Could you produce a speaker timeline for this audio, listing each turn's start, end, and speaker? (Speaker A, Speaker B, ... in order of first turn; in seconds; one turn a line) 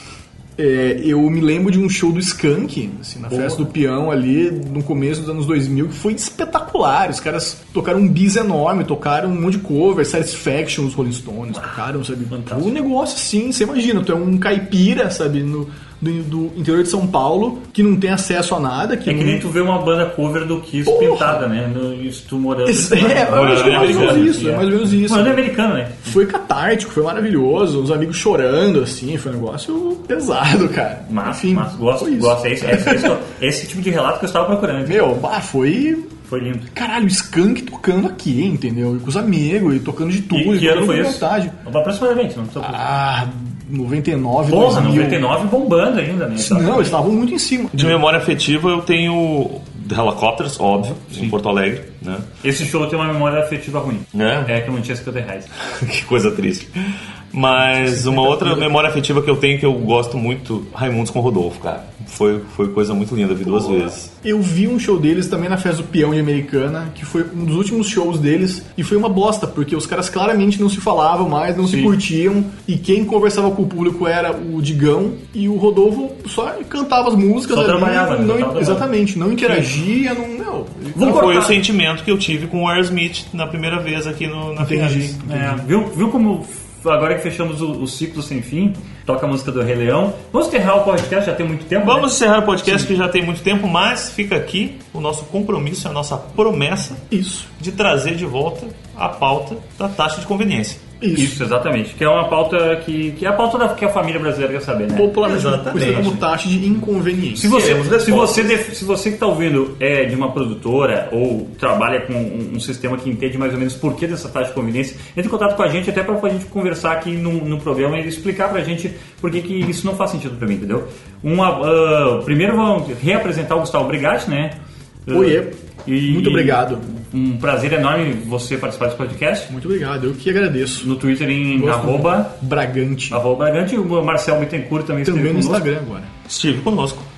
Speaker A: 0.6-19.5
Speaker B: 3.3-3.6
Speaker B: 12.3-12.7
Speaker B: 19.1-26.1
Speaker A: 20.9-21.5
Speaker A: 22.7-25.5
Speaker C: 23.3-24.4
Speaker A: 26.0-33.2
Speaker B: 31.1-35.1
Speaker A: 34.9-36.1
Speaker B: 36.3-36.7
Speaker A: 36.7-41.6
Speaker B: 40.3-42.8
Speaker A: 42.6-45.3
Speaker B: 44.5-47.0
Speaker A: 46.4-48.0
Speaker C: 47.7-52.3
Speaker B: 52.4-55.5
Speaker C: 54.1-54.5
Speaker C: 55.6-64.1
Speaker A: 57.8-58.8
Speaker A: 63.5-81.4
Speaker B: 71.7-71.9
Speaker B: 77.5-78.9
Speaker B: 79.4-79.7
Speaker B: 81.0-81.6
Speaker C: 81.0-85.2
Speaker A: 84.6-85.7
Speaker B: 85.2-92.1
Speaker C: 91.8-97.0
Speaker A: 97.1-97.5
Speaker C: 97.6-100.8
Speaker A: 101.0-101.4
Speaker B: 101.1-105.2
Speaker A: 104.9-107.6
Speaker C: 105.2-106.2
Speaker B: 105.8-106.1
Speaker B: 107.3-129.5
Speaker C: 107.4-108.6
Speaker A: 125.1-126.8
Speaker A: 129.5-130.9
Speaker B: 130.8-132.3
Speaker A: 131.5-133.2
Speaker B: 133.1-135.7
Speaker A: 135.0-136.1
Speaker C: 136.3-137.1